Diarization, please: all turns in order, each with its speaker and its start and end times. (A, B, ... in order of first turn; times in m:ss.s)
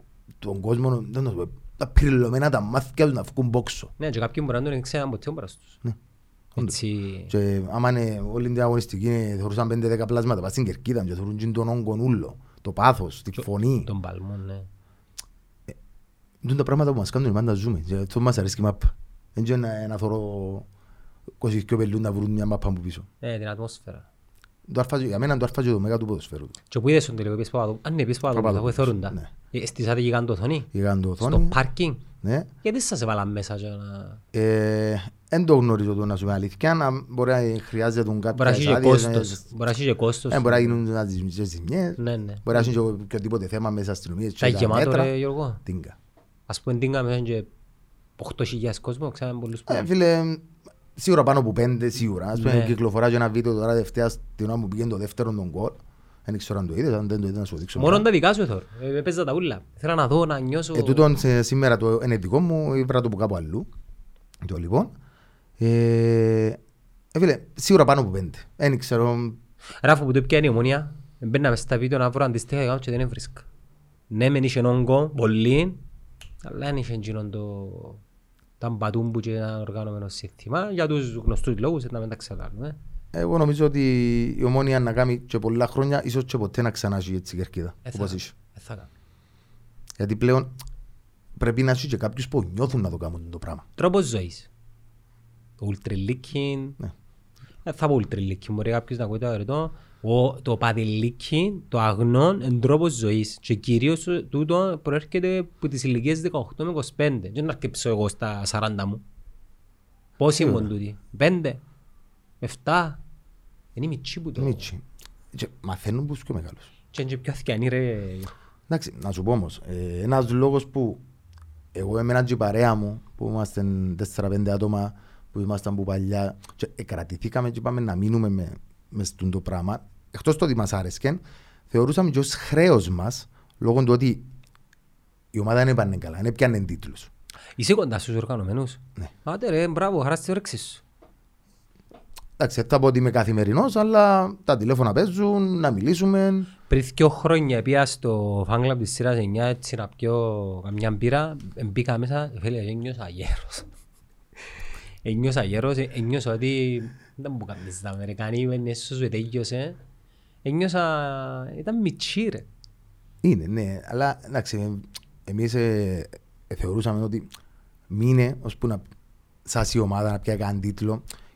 0:00.4-0:03.9 A
0:04.0-0:05.8 B
0:06.6-0:07.3 B
0:07.3-0:13.9 A
0:13.8-0:14.7 B
0:16.4-0:20.7 A
0:21.4-0:23.1 A
0:23.2-0:24.1 B
0:24.7-0:26.5 A
0:26.7-0:30.7 B
0:28.3-0:29.3 A
0:30.7-0:31.6 A
0:31.2-0:32.0 B
0:32.2-0:32.5 A
0:32.6-0:34.2 B
0:34.3-0:39.4 A
0:38.3-0:40.8 B
0:40.3-0:45.1 A
0:42.0-0:42.7 B
0:44.4-0:45.6 B
0:45.6-0:46.0 A
0:46.5-0:47.5 B
0:48.2-0:49.9 B
0:49.7-0:58.0 A
0:52.3-0:52.8 B
0:57.8-1:01.0 B
1:00.7-1:03.7 A
1:04.4-1:04.9 A
1:05.6-1:06.6 A
1:07.1-1:09.4 A
1:09.8-1:13.4 B
1:14.1-1:15.8 B
1:16.4-1:18.0 B
1:18.6-1:22.8 B
1:23.1-1:28.3 A
1:27.8-1:28.9 B
1:30.0-1:30.5 A
1:31.4-1:33.6 A
1:33.8-1:34.5 B
1:35.6-1:36.8 B
1:37.6-1:49.0 B
1:50.2-1:51.6 B
1:50.4-1:50.7 A
1:52.4-1:53.0 B
1:53.8-1:54.7 B
1:54.4-1:54.8 A
1:55.3-1:56.7 A
1:56.9-1:58.3 B
1:58.7-2:01.0 A
2:01.7-2:14.3 A
2:15.3-2:17.1 A
2:17.6-2:20.8 B
2:22.4-2:26.5 A
2:26.7-2:33.7 B
2:35.0-2:39.8 B
2:40.4-2:42.5 B
2:43.2-2:47.3 A
2:47.9-2:48.8 A
2:49.4-2:51.0 A